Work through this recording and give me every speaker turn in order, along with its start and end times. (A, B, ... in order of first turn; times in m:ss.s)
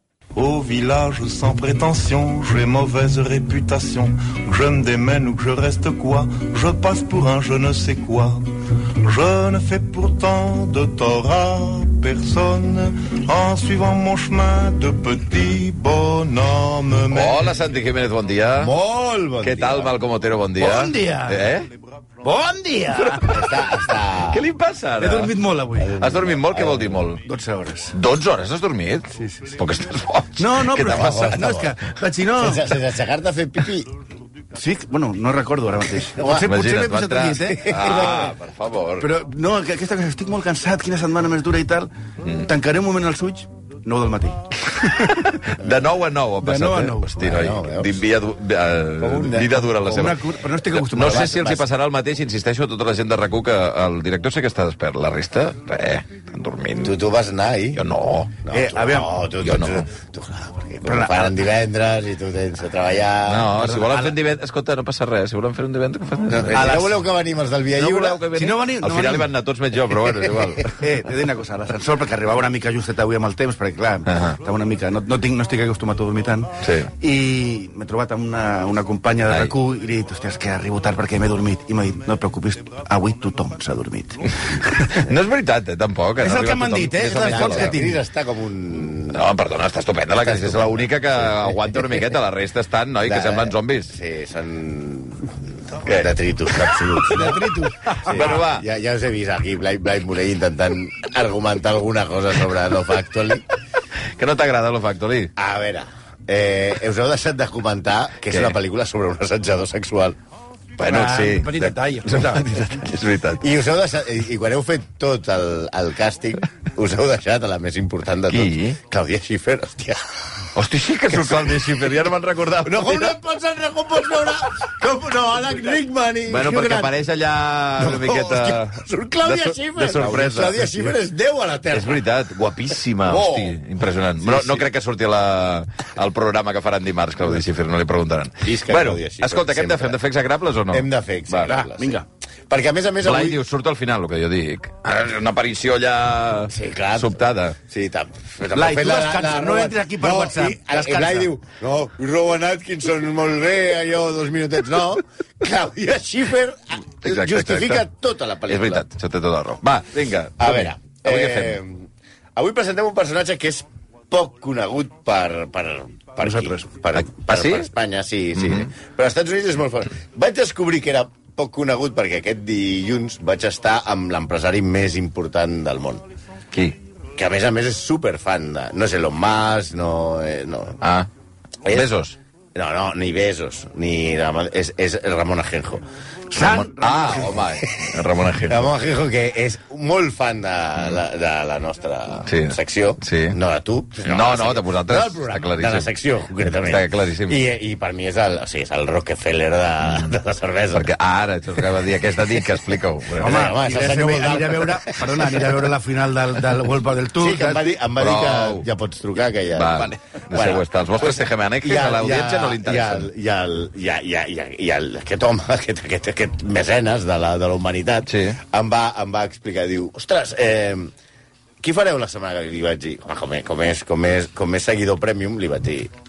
0:00.3-0:17.6 A
0:17.1-0:18.8 B
0:18.6-0:20.0 C
0:19.4-0:21.7 B
0:20.6-0:21.6 D
0:22.2-0:23.4 D
0:23.0-0:23.7 B
0:23.2-0:24.5 C
0:24.3-0:25.4 B
0:25.0-0:26.0 D
0:25.8-0:27.1 C
0:26.0-0:27.2 B
0:27.2-0:28.0 D
0:27.9-0:31.2 B
0:29.2-0:29.5 D
0:30.4-0:32.8 D
0:30.8-0:31.8 C
0:32.4-0:33.9 C
0:34.5-0:38.3 D
0:36.1-0:36.5 C
0:36.4-0:39.1 B
0:37.5-0:38.3 C
0:39.0-0:45.2 D
0:44.8-0:50.2 B
0:46.4-0:47.3 D
0:47.2-0:48.0 C
0:49.0-0:49.5 C
0:49.2-0:51.4 D
0:50.7-0:57.0 B
0:51.0-0:51.6 C
0:56.8-0:57.8 C
0:57.7-0:58.4 B
0:58.4-1:03.6 C
0:58.5-0:59.2 D
0:59.4-0:59.8 B
1:00.8-1:01.3 D
1:03.3-1:06.9 B
1:03.6-1:04.1 D
1:06.2-1:08.2 C
1:06.5-1:06.9 D
1:07.8-1:10.8 B
1:08.3-1:09.3 D
1:10.6-1:25.1 D
1:14.0-1:14.4 B
1:16.6-1:16.9 B
1:25.0-1:27.8 B
1:26.2-1:28.0 D
1:27.2-1:29.2 C
1:29.1-1:33.9 B
1:30.2-1:32.0 C
1:33.0-1:37.4 C
1:35.8-1:37.2 B
1:37.1-1:38.3 D
1:38.0-1:43.4 C
1:38.1-1:38.6 B
1:44.2-1:45.3 B
1:45.4-1:50.2 C
1:50.8-1:53.4 B
1:50.8-1:52.8 D
1:53.4-2:00.0 C
1:58.3-1:58.8 B
2:00.6-2:03.2 B
2:02.6-2:06.9 C
2:06.3-2:10.9 B
2:07.8-2:12.0 C
2:11.7-2:21.5 B
2:13.0-2:13.6 C
2:14.2-2:14.7 C
2:18.4-2:20.0 C
2:20.7-2:21.9 C
2:21.5-2:22.1 D
2:22.5-2:23.4 C
2:23.0-2:27.6 B
2:26.5-2:38.8 C
2:28.5-2:31.3 D
2:37.0-2:37.8 B
2:38.5-2:41.6 B
2:40.4-2:56.0 C
2:46.2-2:46.7 D
2:46.9-2:47.7 B
2:48.4-2:48.7 B
2:56.5-2:56.8 B
2:57.2-3:00.8 C
3:00.8-3:01.1 B
3:01.6-3:01.9 C
3:01.7-3:02.2 B
3:02.5-3:05.8 C
3:06.3-3:07.4 D
3:06.3-3:08.7 B
3:08.5-3:20.9 C
3:12.2-3:13.4 B
3:14.0-3:15.9 B
3:16.6-3:17.4 B
3:20.7-3:23.4 B
3:23.2-3:25.1 C
3:23.2-3:27.6 D
3:27.2-3:40.9 C
3:28.0-3:28.7 B
3:29.5-3:33.1 B
3:38.1-3:38.4 B
3:41.6-3:45.9 C